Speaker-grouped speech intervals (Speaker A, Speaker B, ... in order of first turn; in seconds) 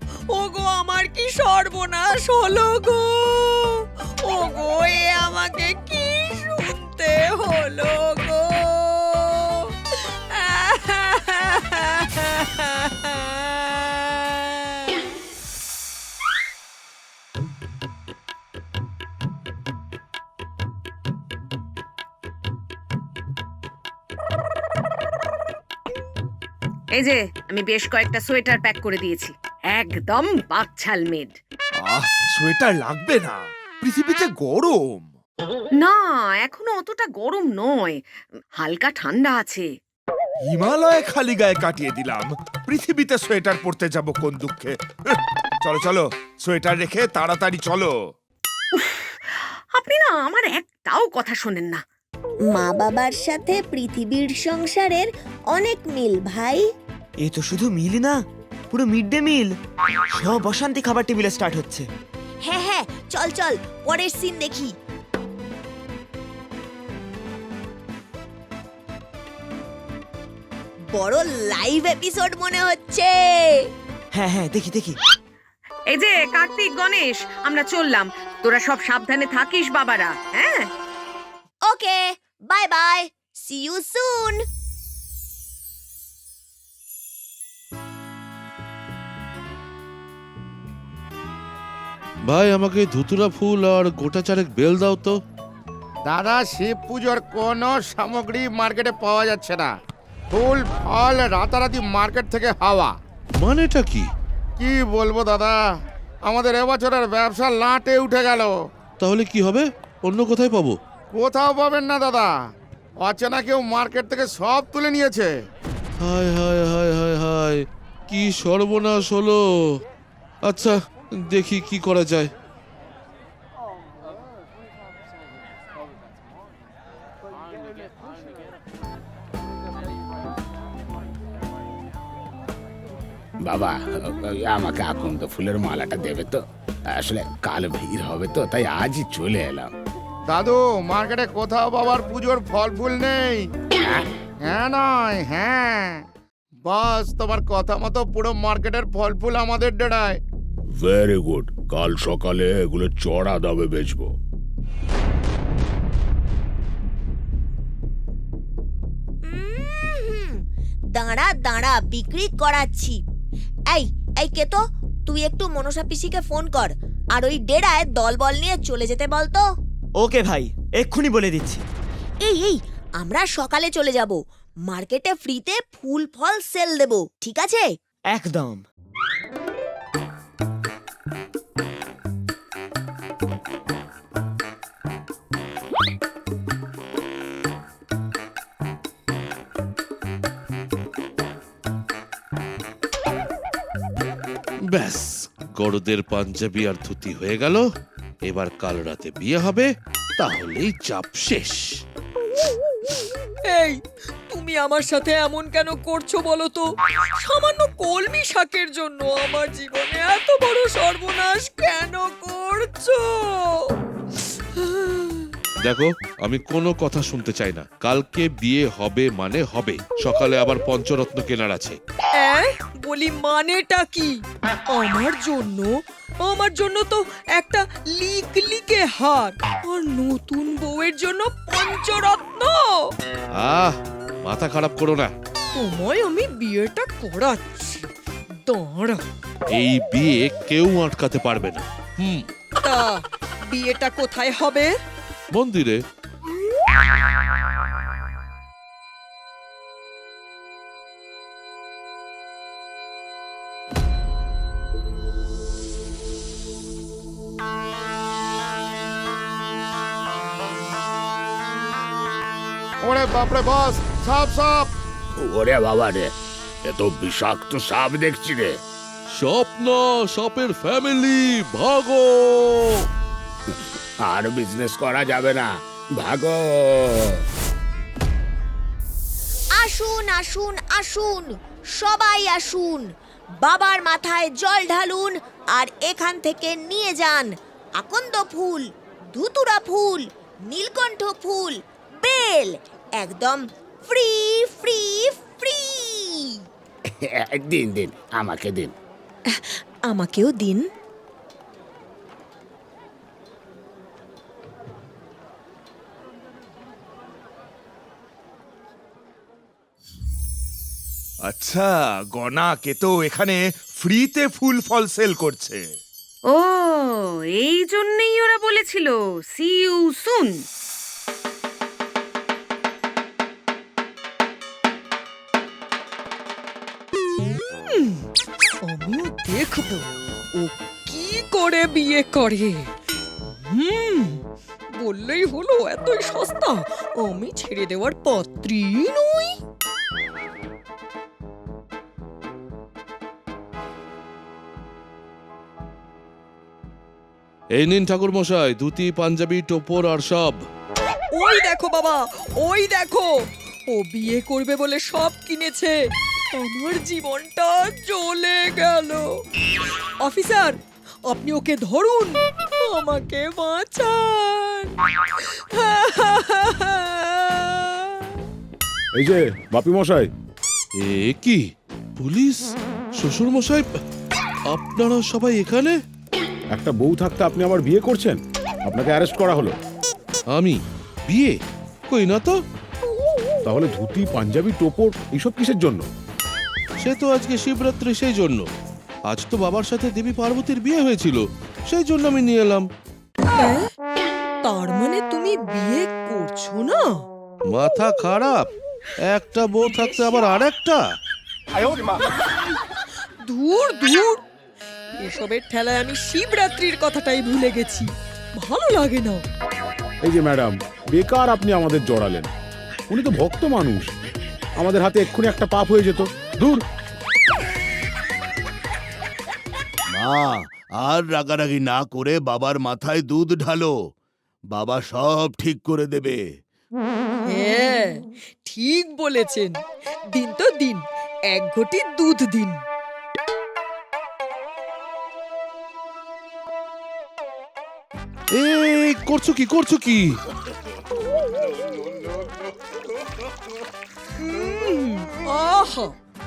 Speaker A: 0.3-15.1, 203.4-206.7, 207.2-215.3, 222.2-224.2, 224.7-225.7, 226.2-232.8, 235.5-237.9, 238.4-239.0, 242.6-244.7, 327.4-328.0, 328.6-332.7, 333.2-339.4, 351.1-353.1, 353.7-355.8, 356.3-359.1, 360.0-360.5, 361.1-368.1, 393.4-393.7, 394.4-396.9, 403.2-404.2, 405.0-409.2, 427.3-429.6, 430.1-432.6, 444.2-445.9
Speaker B: 26.9-31.4, 35.8-38.0, 38.6-39.7, 48.7-49.1, 49.8-51.8, 75.9-80.7, 316.3-320.4
Speaker C: 31.8-35.1, 40.4-47.9, 311.2-315.6
Speaker D: 52.5-56.6, 62.4-64.7, 70.9-73.6, 81.7-84.4, 159.2-163.0, 163.7-169.4, 172.2-177.7, 279.6-282.9, 283.4-296.4, 299.3-300.7
Speaker E: 57.2-58.2, 58.7-59.5, 60.1-61.9, 74.1-75.0, 170.0-171.6, 178.1-178.6
Speaker F: 92.3-95.2, 103.4-104.1, 109.0-110.8, 116.0-119.7, 120.4-120.8, 121.3-122.3, 194.7-197.6, 198.2-201.7, 215.6-221.8, 233.4-235.1, 239.5-242.3, 245.3-245.8, 269.1-272.8, 347.5-350.4, 370.8-371.4, 372.0-373.7, 374.5-375.8, 380.3-381.3, 381.9-382.4, 386.8-388.5, 389.1-392.6, 397.5-398.5, 399.1-400.8, 438.3-440.1
Speaker G: 96.0-99.7, 100.3-102.9, 104.6-105.6, 106.2-108.5, 111.1-112.3, 113.0-115.3, 140.3-143.4, 144.5-146.0, 146.6-150.2, 262.8-264.7
Speaker H: 133.4-139.7, 150.8-154.1, 265.2-266.1, 266.6-268.6, 274.0-277.2, 297.0-298.7
Speaker I: 368.9-370.1, 376.5-379.5, 383.4-385.8, 410.0-412.3, 412.9-413.9, 414.6-416.6
Speaker J: 419.9-423.7, 424.5-426.2